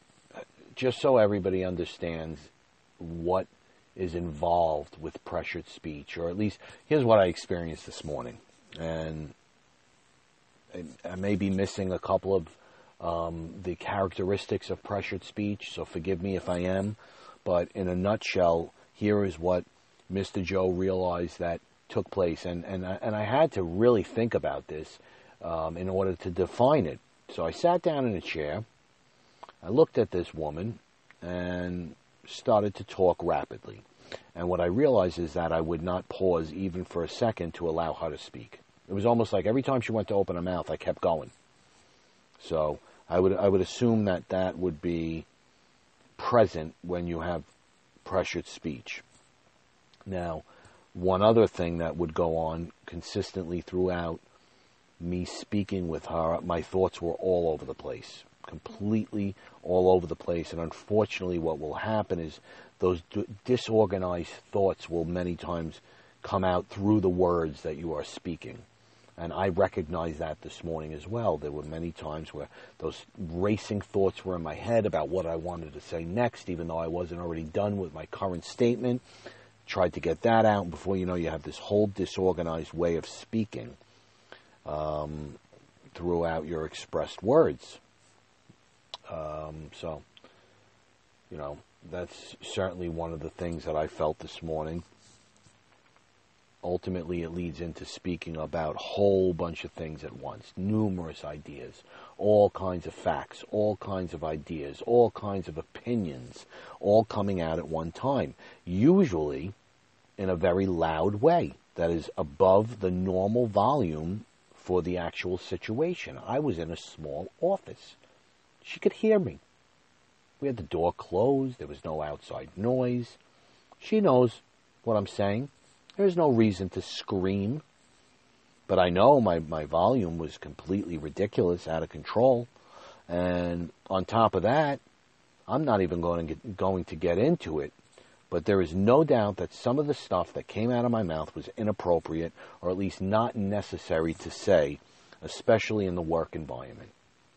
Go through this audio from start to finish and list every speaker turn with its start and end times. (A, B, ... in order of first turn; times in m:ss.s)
0:00.8-0:09.4 A
0:10.7-0:28.6 A
0:29.6-0:41.3 A
0:42.4-0:45.3 A
0:46.2-0:47.5 A
0:48.0-0:49.0 A
0:50.1-0:54.2 A
0:55.0-1:08.6 A
1:09.2-1:19.0 A
1:19.7-1:23.8 A
1:24.6-1:25.4 A
1:25.9-1:27.8 A
1:29.1-1:30.0 A
1:31.3-1:34.8 A
1:36.6-1:49.6 A
1:50.2-1:58.0 A
1:58.6-1:59.4 A
2:00.4-2:03.2 A
2:03.8-2:07.6 A
2:08.7-2:12.5 A
2:13.1-2:14.8 A
2:15.5-2:17.7 A
2:18.3-2:26.9 A